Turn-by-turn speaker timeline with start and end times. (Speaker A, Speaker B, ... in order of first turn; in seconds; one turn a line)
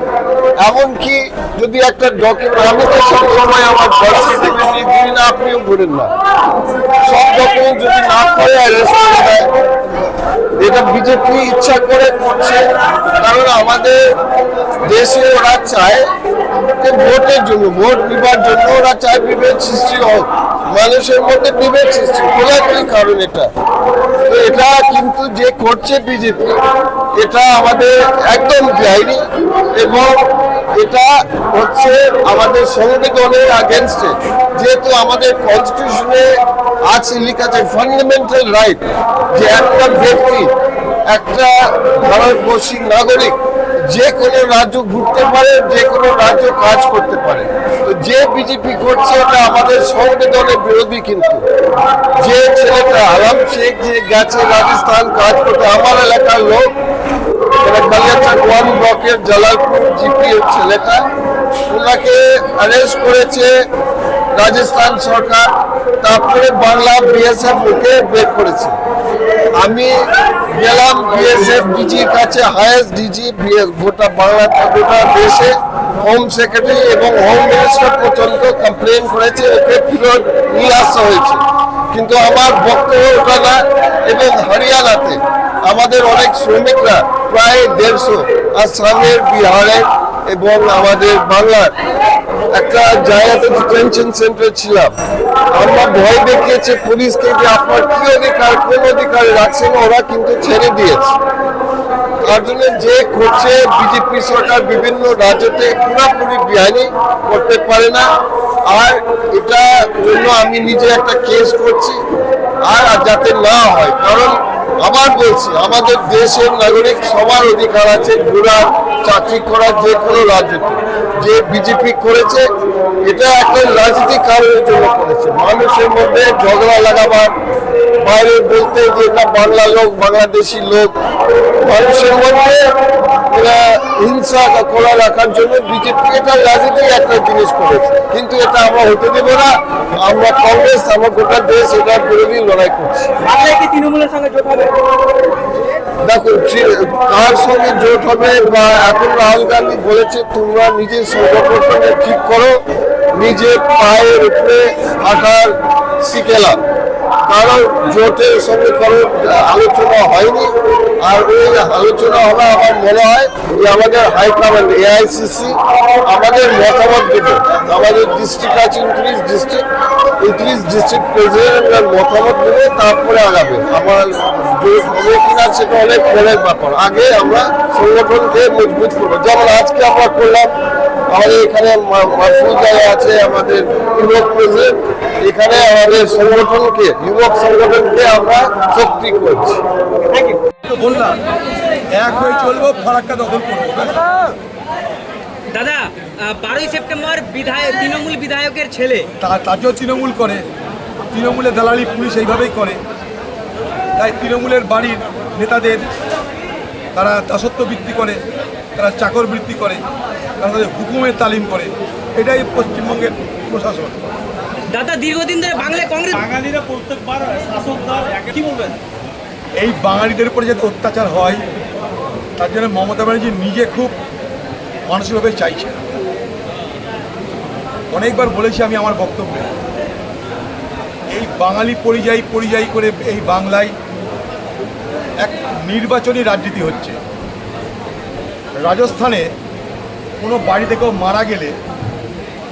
Speaker A: 0.6-6.1
Speaker A: 7.0-9.5
Speaker A: 10.6-14.0
Speaker A: 14.8-16.1
Speaker A: 16.8-23.5
Speaker A: 24.3-26.6
Speaker A: 27.2-29.2
Speaker A: 29.8-30.2
Speaker A: 30.8-36.3
Speaker A: 36.9-38.8
Speaker A: 39.3-40.5
Speaker A: 41.1-51.4
Speaker A: 52.2-56.7
Speaker A: 57.6-61.0
Speaker A: 61.7-63.5
Speaker A: 64.3-65.5
Speaker A: 66.0-68.8
Speaker A: 69.6-69.9
Speaker A: 70.5-81.4
Speaker A: 81.9-91.7
Speaker A: 92.5-94.9
Speaker A: 95.5-101.1
Speaker A: 102.3-108.1
Speaker A: 108.7-112.0
Speaker A: 112.7-122.4
Speaker A: 123.0-127.3
Speaker A: 128.0-130.9
Speaker A: 131.6-132.6
Speaker A: 133.3-139.5
Speaker A: 140.0-143.1
Speaker B: 143.2-144.7
Speaker A: 146.0-152.6
Speaker A: 153.1-156.6
Speaker A: 157.3-169.6
Speaker A: 170.2-180.5
Speaker A: 181.1-189.6
Speaker B: 190.1-190.4
Speaker C: 190.6-191.2
Speaker C: 191.9-194.0
Speaker B: 195.5-199.1
Speaker C: 199.2-200.4
Speaker C: 201.1-202.8
Speaker C: 204.0-205.9
Speaker C: 206.9-208.2
Speaker C: 208.8-209.8
Speaker C: 210.4-214.0
Speaker B: 214.7-216.3
Speaker D: 216.1-218.8
Speaker C: 219.6-221.4
Speaker C: 222.4-224.0
Speaker C: 224.9-225.8
Speaker C: 227.9-229.5
Speaker C: 231.1-233.7
Speaker C: 235.2-237.0
Speaker C: 238.6-239.3
Speaker C: 240.2-241.6